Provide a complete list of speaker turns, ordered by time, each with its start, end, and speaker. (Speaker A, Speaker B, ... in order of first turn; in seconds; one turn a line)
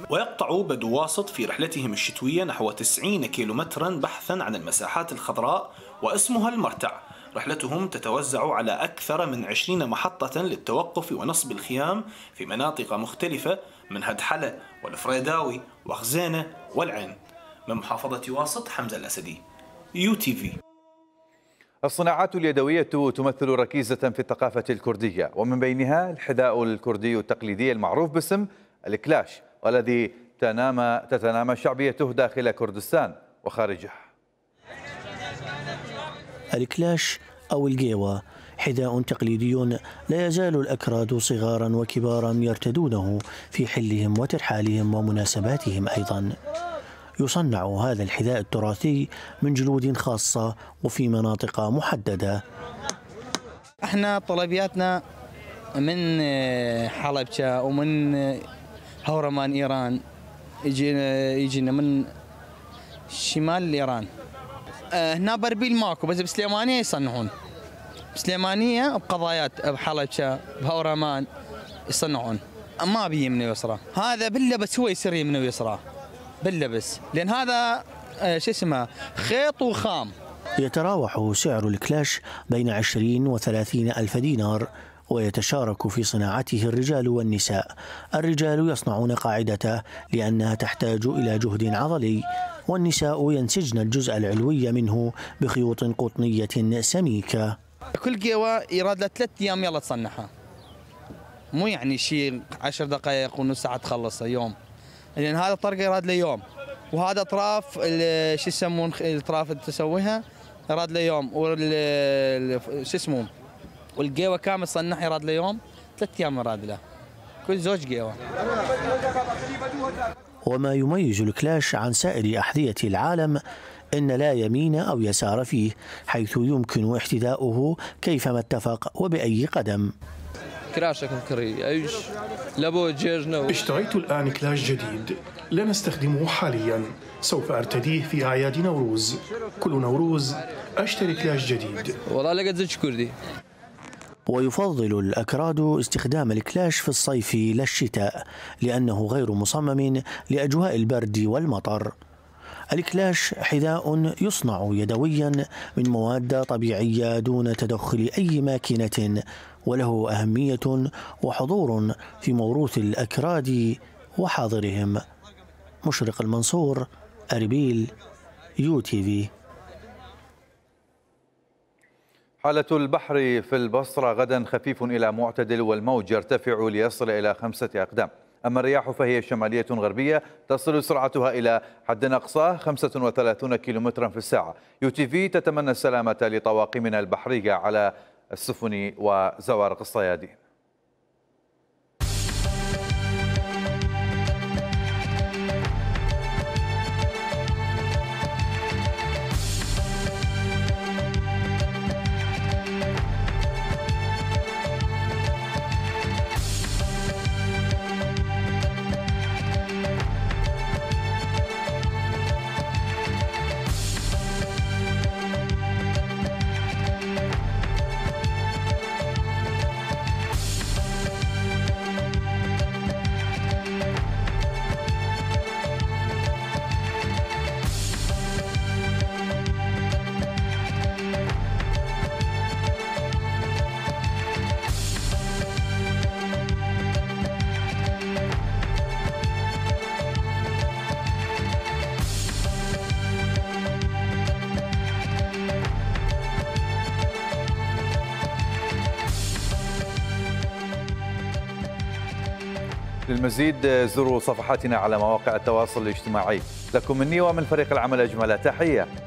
Speaker A: 0.1-19.4
Speaker A: 19.9-20.6
Speaker B: 21.8-34.1
Speaker C: 36.5-46.3
Speaker C: 47.2-52.4
Speaker D: 53.9-54.9
Speaker D: 57.1-57.9
Speaker D: 59.1-59.9
Speaker D: 60.8-61.9
Speaker D: 63.2-64.0
Speaker D: 65.1-67.3
Speaker D: 68.3-71.2
Speaker D: 72.0-72.3
Speaker D: 72.9-75.7
Speaker D: 76.5-77.5
Speaker D: 78.4-80.1
Speaker C: 80.6-97.5
Speaker D: 98.1-100.2
Speaker D: 101.6-104.5
Speaker D: 105.2-106.4
Speaker D: 107.0-110.1
Speaker D: 110.8-111.7
Speaker D: 112.9-113.3
Speaker D: 114.0-115.5
Speaker D: 116.2-116.8
Speaker D: 117.5-118.1
Speaker C: 120.5-123.4
Speaker C: 123.9-129.9
Speaker E: 130.7-132.0
Speaker E: 132.7-133.4
Speaker F: 133.5-141.9
Speaker E: 142.2-143.1
Speaker C: 144.3-151.9
Speaker C: 152.7-165.0
Speaker C: 165.8-167.9
Speaker C: 168.6-169.3
Speaker B: 172.4-190.4
Speaker B: 253.1-258.9